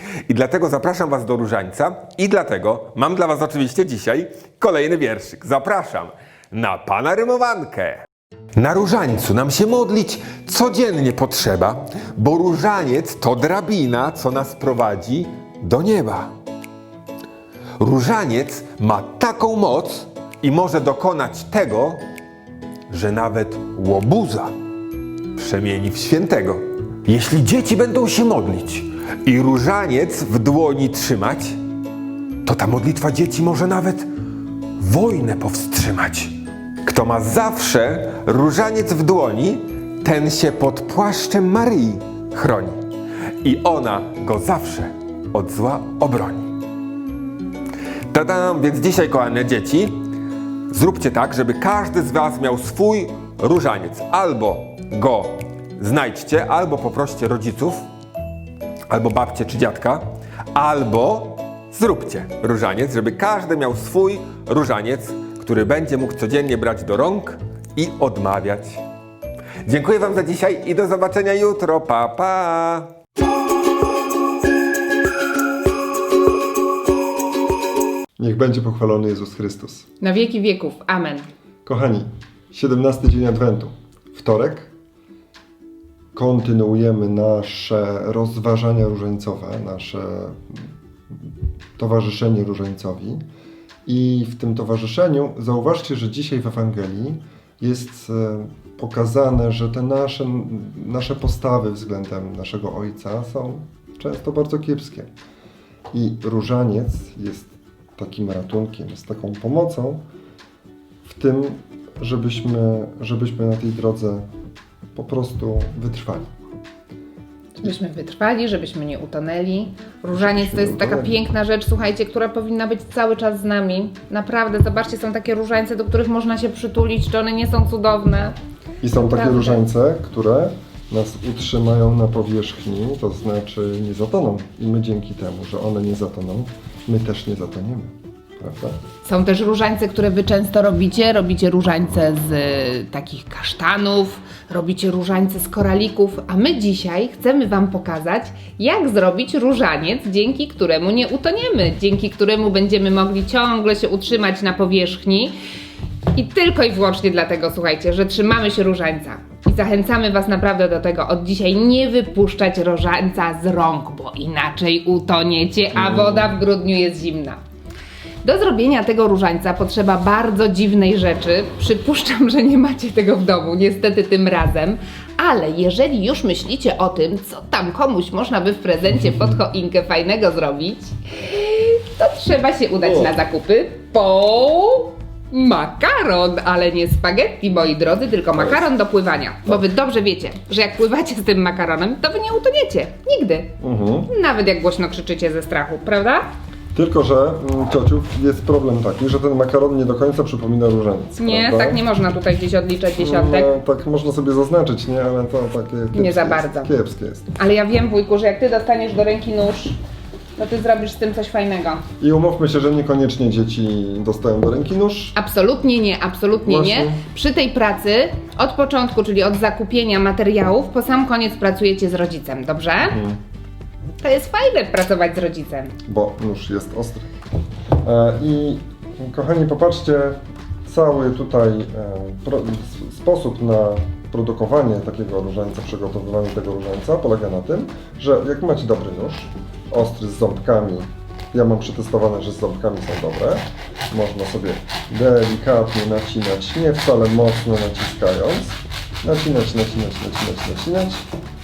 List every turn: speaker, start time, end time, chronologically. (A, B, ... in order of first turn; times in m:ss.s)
0:00.3-0:08.0 A
0:08.6-0:16.3 A
0:17.8-0:22.0 A
0:22.9-0:24.5 A
0:25.4-0:31.6 A
0:32.4-0:34.1 A
0:34.8-0:36.3 A
0:36.8-0:42.8 A
0:43.4-0:46.5 A
0:48.1-0:49.9 A
0:50.7-0:57.8 A
0:58.9-1:08.8 A
1:09.6-1:12.9 A
1:18.2-1:19.9 B
1:20.0-1:21.2 C
1:21.6-1:24.7 B
1:26.1-1:33.2 B
1:33.8-1:45.1 B
1:45.9-1:50.0 B
1:51.0-1:54.2 B
1:54.9-1:56.3 B
1:57.6-2:08.4 C
2:00.1-2:01.2 B
2:08.8-2:18.8 B
2:08.9-2:09.6 C
2:19.0-2:35.3 C
2:36.1-2:47.4 C
2:45.7-2:46.4 B
2:48.2-3:13.5 C
3:02.8-3:03.1 B
3:13.6-3:14.1 B
3:14.1-3:16.2 C
3:16.7-3:21.8 B
3:21.1-3:23.5 C
3:23.0-3:27.3 B
3:25.9-3:26.7 C
3:27.4-3:29.8 C
3:30.4-3:31.8 C
3:32.0-3:35.2 B
3:35.1-3:43.0 C
3:36.4-3:37.0 B
3:42.9-3:43.2 B
3:44.0-3:45.7 C
3:45.9-3:47.1 B
3:47.8-4:11.0 B